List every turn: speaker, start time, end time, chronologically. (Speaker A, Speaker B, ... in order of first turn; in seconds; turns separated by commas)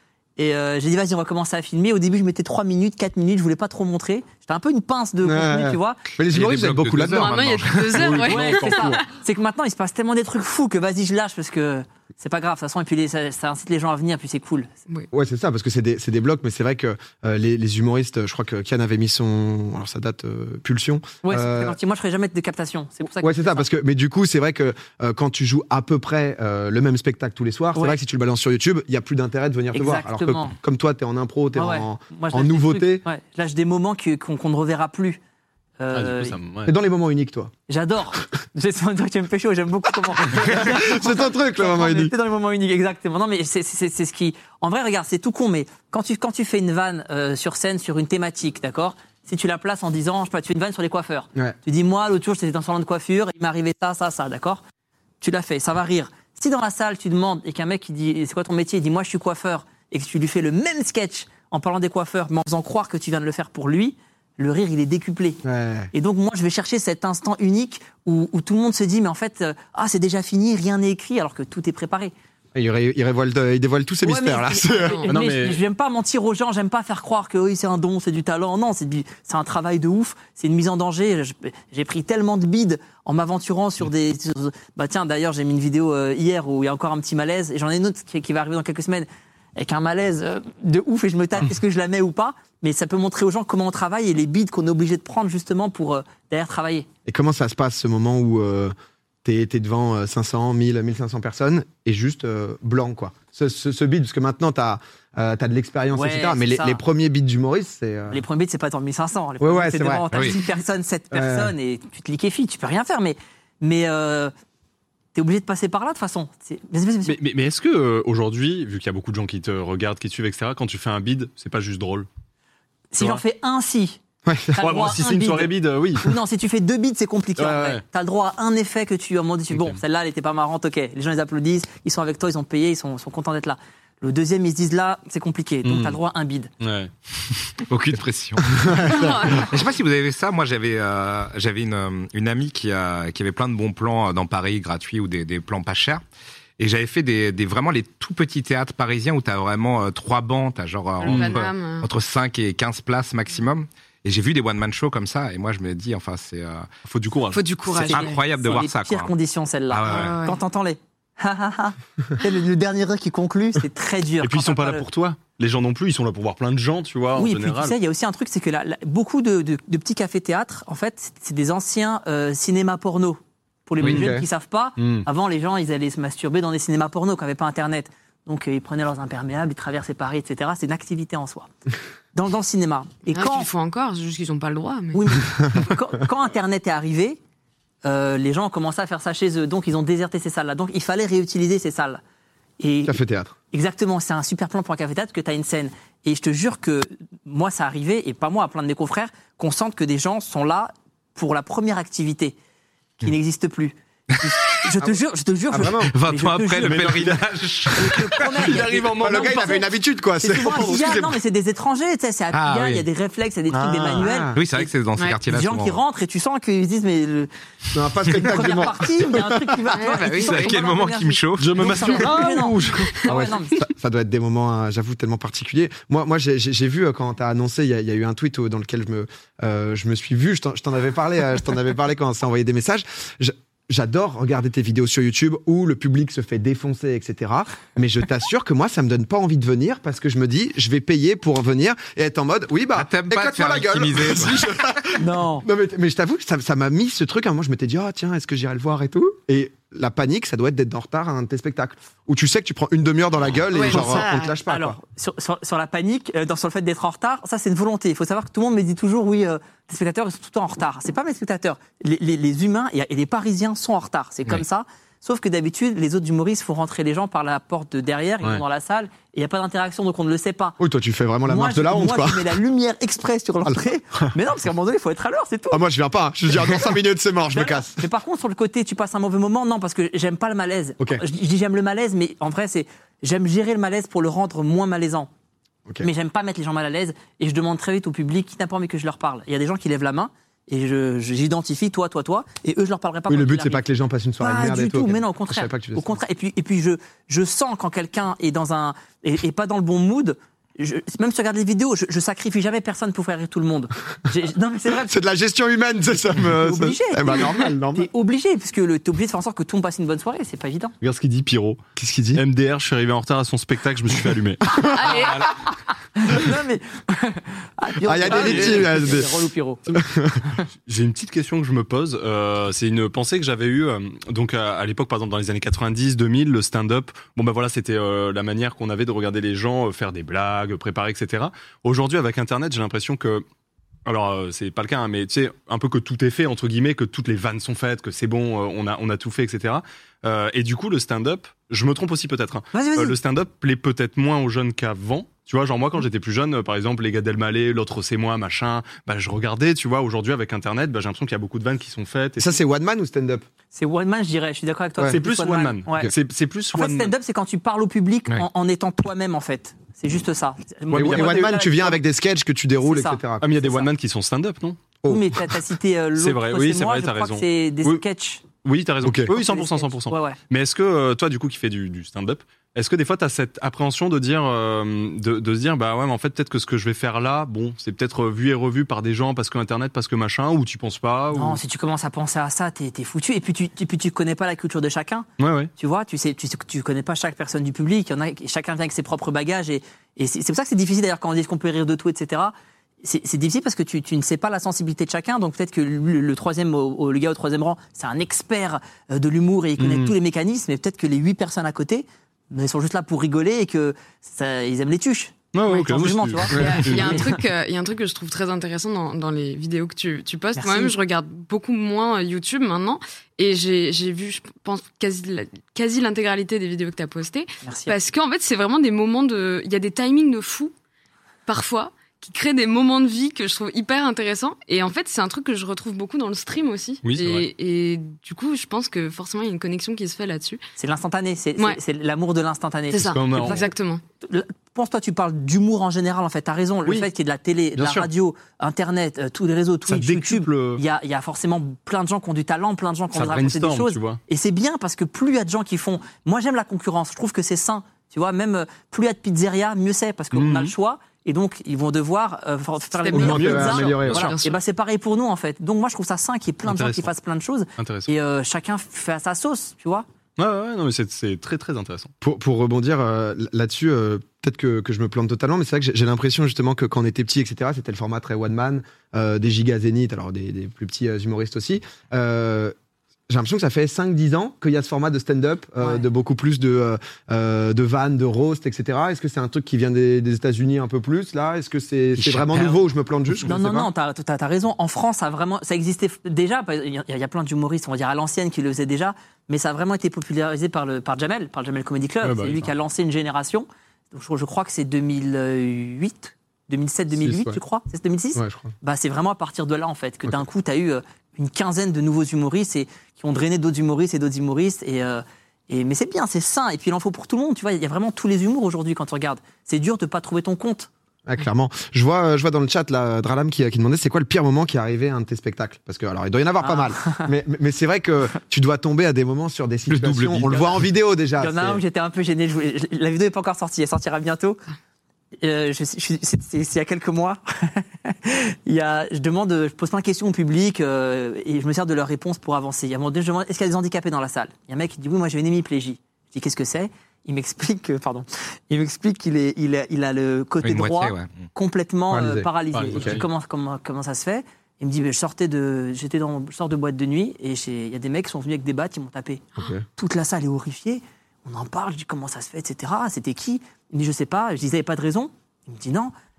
Speaker A: 0.4-6.0, Speaker B: 5.2-9.0, Speaker C: 6.3-8.2, Speaker D: 7.1-9.0, Speaker A: 8.2-14.8, Speaker B: 15.1-21.8, Speaker A: 21.2-23.6, Speaker B: 23.1-33.0, Speaker A: 29.7-30.5, Speaker A: 31.5-35.2, Speaker A: 35.8-36.4, Speaker E: 35.9-36.7, Speaker B: 36.6-37.5, Speaker A: 37.7-54.6, Speaker B: 40.2-42.1, Speaker A: 55.2-65.4, Speaker B: 65.4-65.9, Speaker A: 65.9-72.1, Speaker B: 72.5-75.0, Speaker A: 74.0-96.9, Speaker D: 74.8-75.1, Speaker E: 75.1-75.6, Speaker B: 97.0-98.7, Speaker B: 99.2-108.2, Speaker A: 105.9-106.8, Speaker A: 108.1-114.3, Speaker B: 109.4-110.3, Speaker B: 111.1-111.5, Speaker A: 115.1-117.2, Speaker E: 117.0-122.1, Speaker A: 122.9-136.5, Speaker B: 124.2-124.7, Speaker E: 124.6-126.1, Speaker E: 127.4-127.8, Speaker E: 129.5-129.8, Speaker E: 135.6-136.0, Speaker E: 136.6-136.9, Speaker C: 137.7-146.0, Speaker B: 138.6-139.2, Speaker D: 138.8-139.5, Speaker C: 146.6-156.7, Speaker D: 151.0-151.9, Speaker E: 151.0-151.4, Speaker E: 156.8-157.4, Speaker D: 157.3-158.2, Speaker A: 157.7-164.8, Speaker C: 157.8-159.1, Speaker C: 159.7-160.2, Speaker D: 159.8-160.4, Speaker E: 164.2-167.7, Speaker A: 167.1-181.5, Speaker B: 173.8-174.2, Speaker E: 173.8-174.1, Speaker E: 174.8-175.1, Speaker A: 182.1-183.5, Speaker D: 183.1-185.0, Speaker A: 184.9-187.2, Speaker A: 187.8-192.0, Speaker A: 192.6-193.0, Speaker B: 192.8-193.3, Speaker A: 193.5-202.3, Speaker A: 203.0-206.9, Speaker B: 205.5-205.9, Speaker C: 205.9-208.2, Speaker E: 206.6-209.6, Speaker A: 207.8-214.7, Speaker B: 208.9-211.2, Speaker E: 210.4-210.8, Speaker C: 212.3-212.8, Speaker E: 213.5-214.0, Speaker B: 213.9-214.4, Speaker C: 214.3-215.8, Speaker A: 215.3-217.3, Speaker B: 217.7-219.6, Speaker A: 218.0-223.6, Speaker D: 219.7-220.4, Speaker C: 219.8-222.1, Speaker E: 221.4-223.0, Speaker B: 223.1-254.8, Speaker C: 242.7-244.6, Speaker A: 244.9-245.4, Speaker D: 253.6-254.3, Speaker A: 253.6-270.6, Speaker B: 270.6-272.3, Speaker A: 271.3-275.6, Speaker B: 275.5-277.8, Speaker A: 277.3-285.1, Speaker A: 285.8-293.6, Speaker B: 293.1-296.0, Speaker A: 294.2-304.9, Speaker B: 304.7-307.9, Speaker A: 306.2-310.7, Speaker E: 310.8-314.6, Speaker B: 311.8-312.2, Speaker D: 314.6-315.3, Speaker A: 314.8-315.3, Speaker A: 315.9-319.8, Speaker B: 317.8-319.1, Speaker E: 318.0-319.0, Speaker B: 319.7-320.2, Speaker E: 320.6-333.2, Speaker E: 333.9-352.4, Speaker A: 342.5-343.0, Speaker B: 352.2-353.2, Speaker A: 353.5-355.9, Speaker E: 354.9-356.9, Speaker A: 356.5-361.8, Speaker E: 360.7-361.3, Speaker B: 360.7-363.4, Speaker A: 362.6-363.7, Speaker E: 363.2-364.6, Speaker B: 364.8-365.3, Speaker A: 364.9-368.2, Speaker E: 366.0-367.8, Speaker E: 368.4-381.4, Speaker B: 368.8-369.1, Speaker A: 369.1-370.2, Speaker A: 381.1-407.2, Speaker E: 385.2-385.5, Speaker E: 399.6-399.9, Speaker E: 405.3-407.1, Speaker D: 406.3-420.5, Speaker B: 406.3-406.6, Speaker A: 410.4-410.7, Speaker A: 417.4-417.8, Speaker D: 421.3-430.4, Speaker E: 426.8-427.3, Speaker A: 430.6-433.5, Speaker D: 432.7-433.8, Speaker E: 432.8-433.5, Speaker A: 434.0-459.8, Speaker E: 437.6-437.9, Speaker E: 439.7-440.6, Speaker E: 442.9-444.0, Speaker E: 450.1-450.5, Speaker D: 452.8-454.4, Speaker B: 452.9-454.1, Speaker E: 453.1-454.1, Speaker E: 456.4-456.9, Speaker E: 457.6-457.9, Speaker E: 460.2-461.9, Speaker B: 462.0-472.5, Speaker B: 473.1-483.7, Speaker A: 475.6-475.9, Speaker A: 483.2-510.7, Speaker E: 492.0-492.5, Speaker B: 496.9-497.4, Speaker B: 498.1-498.5, Speaker B: 511.1-521.6, Speaker A: 516.4-517.1, Speaker E: 519.7-520.5, Speaker A: 521.2-524.4, Speaker A: 525.2-555.9, Speaker C: 540.4-541.3, Speaker B: 541.9-543.0, Speaker E: 542.5-543.0, Speaker B: 549.4-549.6